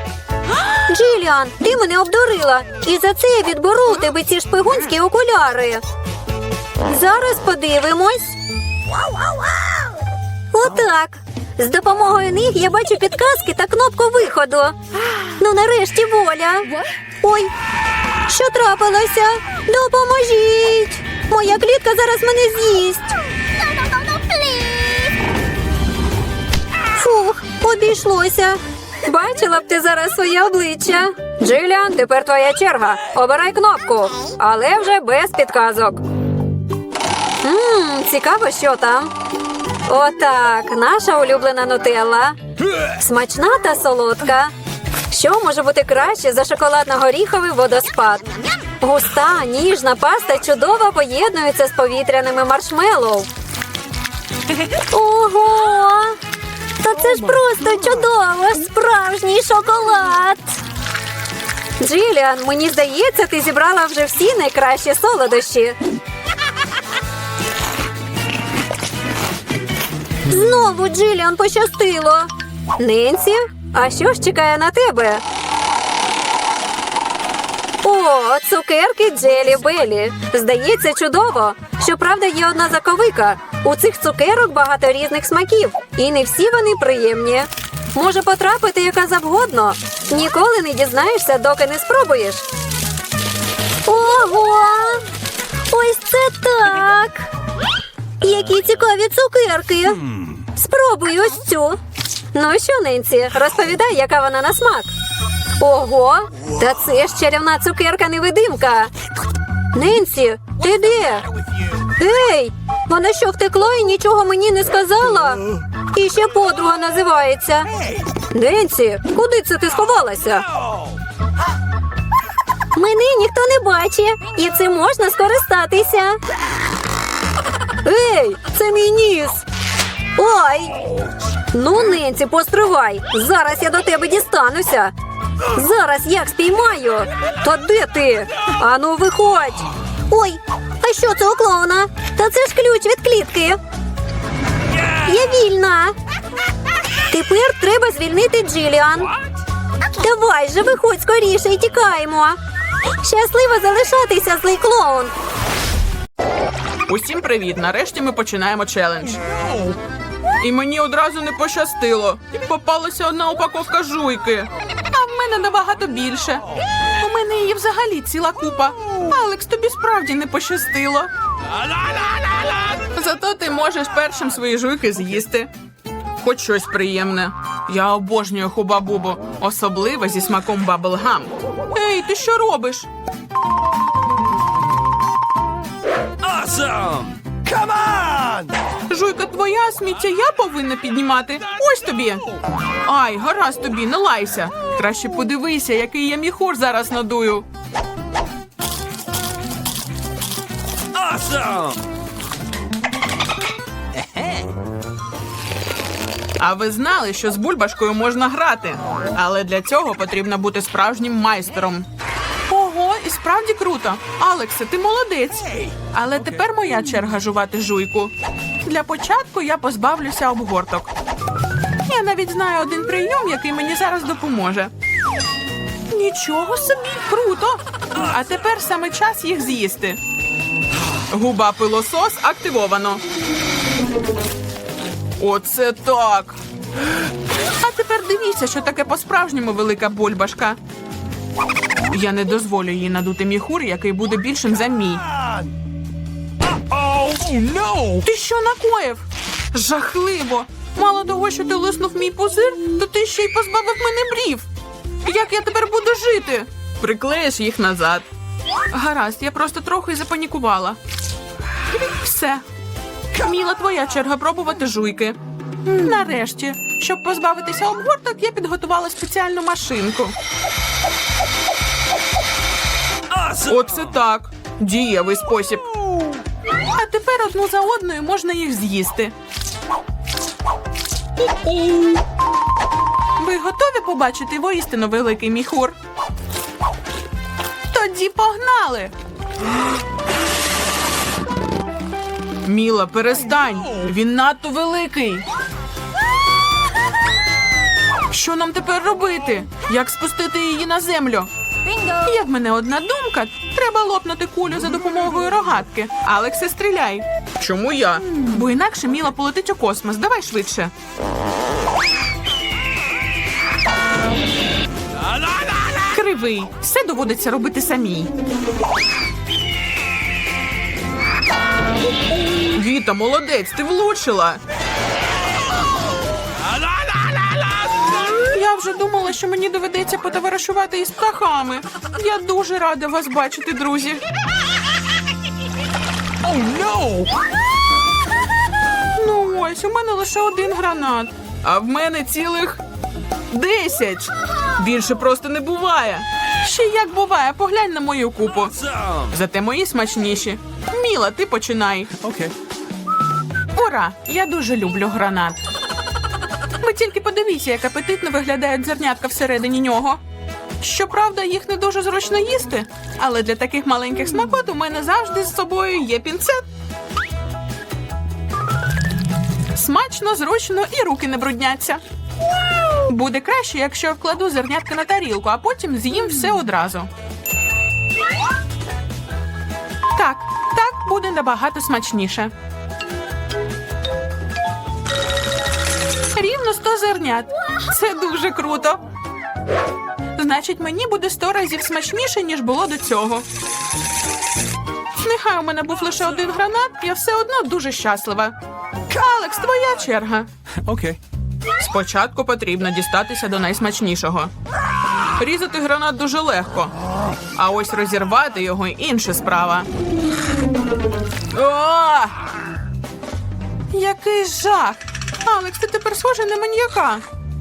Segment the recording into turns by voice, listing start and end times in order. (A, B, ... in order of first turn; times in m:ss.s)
0:00.9-0:05.8 A
0:06.8-0:08.4 A
0:10.5-0:14.8 A
0:15.4-0:17.5 A
0:18.3-0:23.2 A
0:24.3-0:24.7 A
0:27.0-0:36.0 A
0:37.4-0:39.1 A
0:39.9-0:42.4 A
0:43.0-0:44.5 A
0:45.1-0:48.3 A
0:48.8-0:53.3 A
0:54.9-0:56.2 A
0:56.8-1:00.6 A
1:01.8-1:05.8 A
1:10.3-1:15.2 A
1:17.8-1:32.4 A
1:33.9-1:35.0 A
1:35.7-1:37.3 A
1:38.2-1:40.0 A
1:40.6-1:41.8 A
1:42.3-1:44.9 A
1:45.6-1:48.9 A
1:49.7-1:51.2 A
1:52.0-1:57.7 A
1:58.3-2:00.4 A
2:02.8-2:06.2 A
2:07.8-2:09.4 A
2:10.2-2:10.7 A
2:11.5-2:14.9 A
2:15.6-2:23.6 A
2:25.0-2:26.0 A
2:27.1-2:29.1 A
2:30.0-2:32.4 A
2:33.0-2:35.1 A
2:36.9-2:39.7 B
2:40.4-2:46.4 B
2:47.0-2:51.1 B
2:52.9-2:55.5 B
2:56.2-3:02.9 B
3:06.2-3:08.5 C
3:08.9-3:12.2 B
3:12.8-3:17.5 B
3:20.9-3:21.8 C
3:26.4-3:31.9 B
3:32.5-3:40.9 B
3:41.9-3:44.7 B
3:45.9-3:50.0 B
3:51.1-3:53.0 B
3:55.2-3:56.4 B
3:57.6-4:00.6 B
4:01.9-4:05.0 B
4:07.0-4:07.9 C
4:07.9-4:14.5 B
4:15.0-4:18.0 B
4:18.7-4:20.8 B
4:22.0-4:22.4 B
4:23.1-4:30.2 B
4:33.1-4:33.5 C
4:33.5-4:35.7 B
4:36.7-4:39.1 B
4:43.2-4:45.8 B
4:47.7-4:48.9 B
4:52.4-4:55.3 B
4:58.1-5:01.3 B
5:01.9-5:10.7 B
5:15.8-5:18.1 B
5:22.5-5:24.4 B
5:28.3-5:34.0 B
5:36.3-5:37.1 B
5:39.0-5:42.6 B
5:43.3-5:48.6 B
5:48.6-5:49.1 C
5:49.1-5:51.9 B
5:52.0-5:52.3 C
5:53.6-5:55.4 B
5:56.6-6:00.0 B
6:00.6-6:06.5 B
6:09.6-6:11.8 B
6:12.9-6:16.9 B
6:19.9-6:22.3 B
6:26.1-6:28.8 B
6:30.2-6:33.3 B
6:35.0-6:38.4 B
6:38.9-6:40.3 B
6:40.7-6:41.0 C
6:41.6-6:44.3 B
6:45.2-6:46.7 B
6:47.3-6:49.7 B
6:51.3-6:52.3 B
6:53.7-6:57.0 B